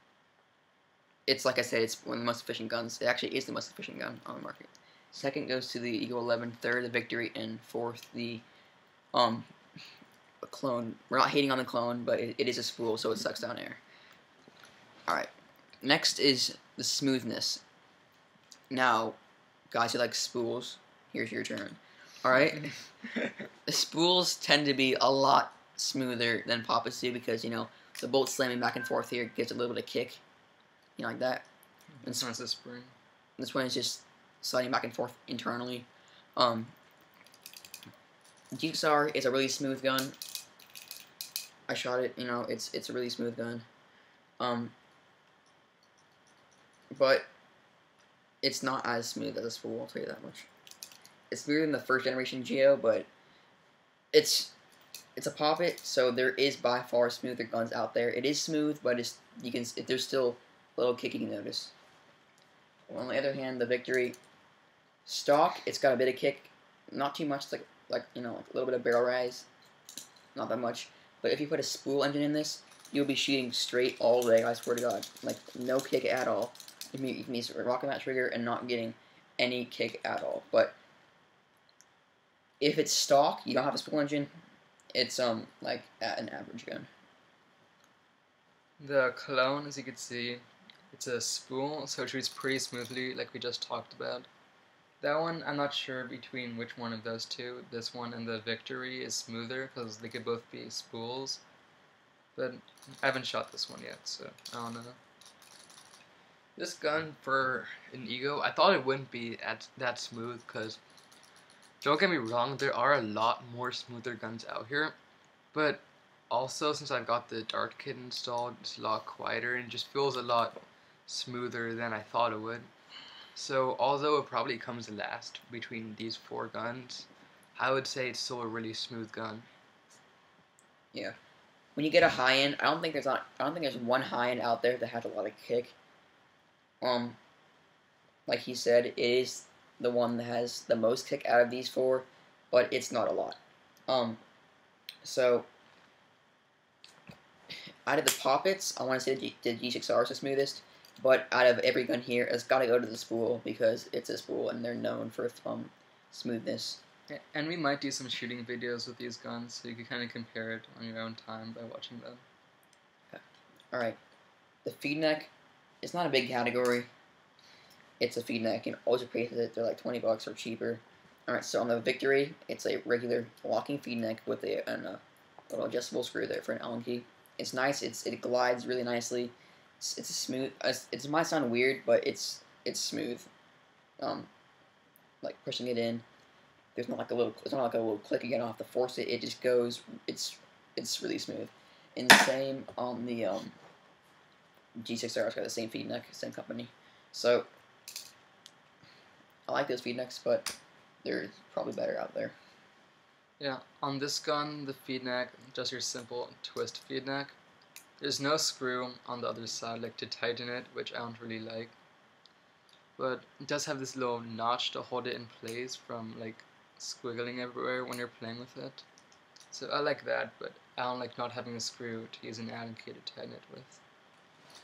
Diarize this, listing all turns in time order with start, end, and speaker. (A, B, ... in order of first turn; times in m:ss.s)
0:01.3-0:08.4 A
0:09.1-0:09.5 A
0:10.4-0:13.8 A
0:15.8-0:17.6 A
0:18.7-0:19.2 A
0:19.7-0:22.8 A
0:23.6-0:30.2 A
0:31.0-0:31.4 A
0:32.0-0:32.9 B
0:33.4-0:36.7 A
0:38.5-0:40.2 A
0:41.7-0:43.6 A
0:44.4-0:44.7 A
0:46.9-0:47.3 A
0:48.4-0:50.5 A
0:51.3-0:53.1 A
0:54.1-0:54.5 A
0:55.2-1:01.7 A
1:02.9-1:04.2 A
1:05.0-1:09.5 A
1:10.3-1:20.8 A
1:22.6-1:24.3 A
1:24.9-1:26.9 A
1:28.8-1:34.3 B
1:35.0-1:41.4 B
1:42.4-1:45.0 B
1:46.6-1:50.8 C
1:51.8-1:55.0 C
1:55.5-2:02.7 C
2:03.3-2:09.5 C
2:11.8-2:15.8 A
2:16.8-2:17.2 A
2:18.3-2:24.2 A
2:25.0-2:25.5 A
2:27.8-2:36.8 A
2:37.1-2:42.2 B
2:43.1-2:44.0 A
2:44.6-2:45.3 A
2:45.8-2:46.9 A
2:48.0-3:03.3 A
3:04.0-3:04.3 A
3:05.2-3:06.0 A
3:06.7-3:13.5 A
3:14.8-3:17.5 A
3:19.5-3:22.3 A
3:23.4-3:27.4 B
3:28.0-3:31.7 B
3:33.0-3:38.8 B
3:39.5-3:43.8 B